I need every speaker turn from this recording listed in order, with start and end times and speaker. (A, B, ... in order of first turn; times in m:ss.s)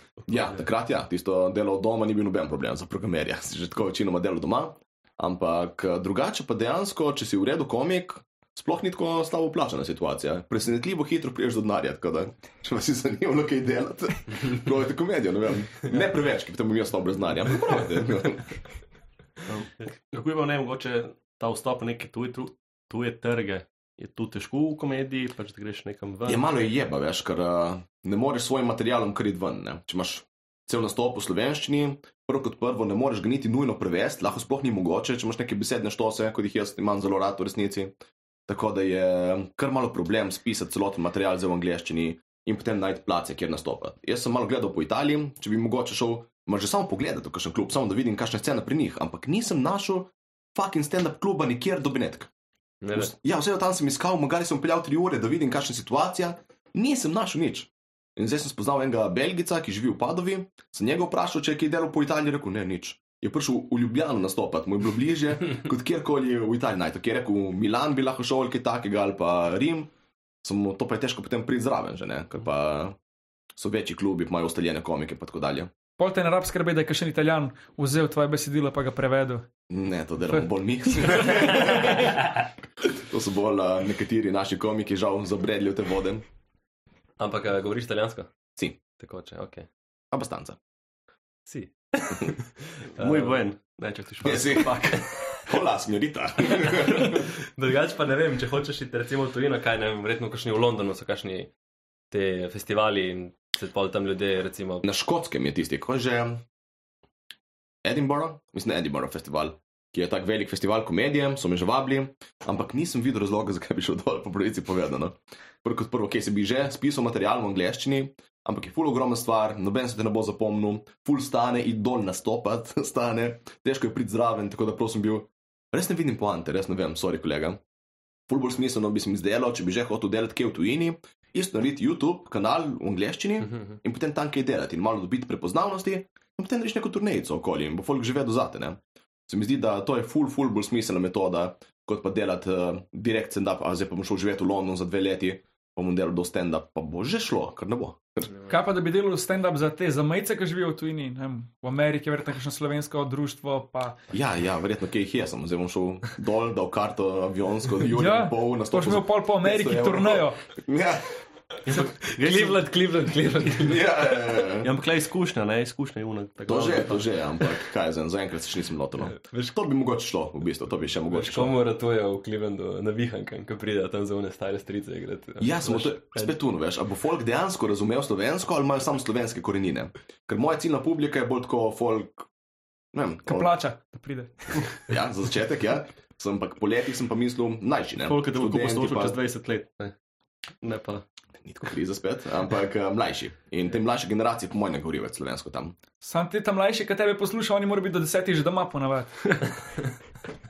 0:00.3-0:18.6 A
0:19.5-0:26.4 B
0:26.2-0:37.9 A
0:38.5-0:52.3 A
0:52.8-0:53.1 C
0:52.9-1:09.9 A
1:10.4-1:13.0 A
1:13.6-1:15.7 A
1:16.0-1:19.5 D
1:19.7-1:22.3 A
1:22.8-1:26.2 A
1:27.2-1:28.3 C
1:29.0-1:29.7 C
1:30.1-1:30.6 A
1:31.5-1:33.4 C
1:33.0-1:34.8 B
1:34.2-1:37.2 A
1:36.7-1:41.5 C
1:42.1-1:44.8 C
1:44.8-1:46.4 A
1:47.8-2:07.6 A
2:08.3-2:28.3 A
2:28.5-2:34.0 D
2:34.1-2:41.0 A
2:37.9-2:40.4 D
2:41.7-2:42.6 B
2:42.0-2:43.8 C
2:43.6-2:44.7 A
2:44.6-2:47.0 B
2:46.4-2:51.6 A
2:51.1-2:56.3 C
2:55.4-3:02.3 A
3:02.9-3:03.5 A
3:03.2-3:04.6 D
3:04.8-3:09.2 A
3:08.0-3:09.9 B
3:10.6-3:11.0 B
3:11.4-3:15.7 A
3:16.0-3:19.2 D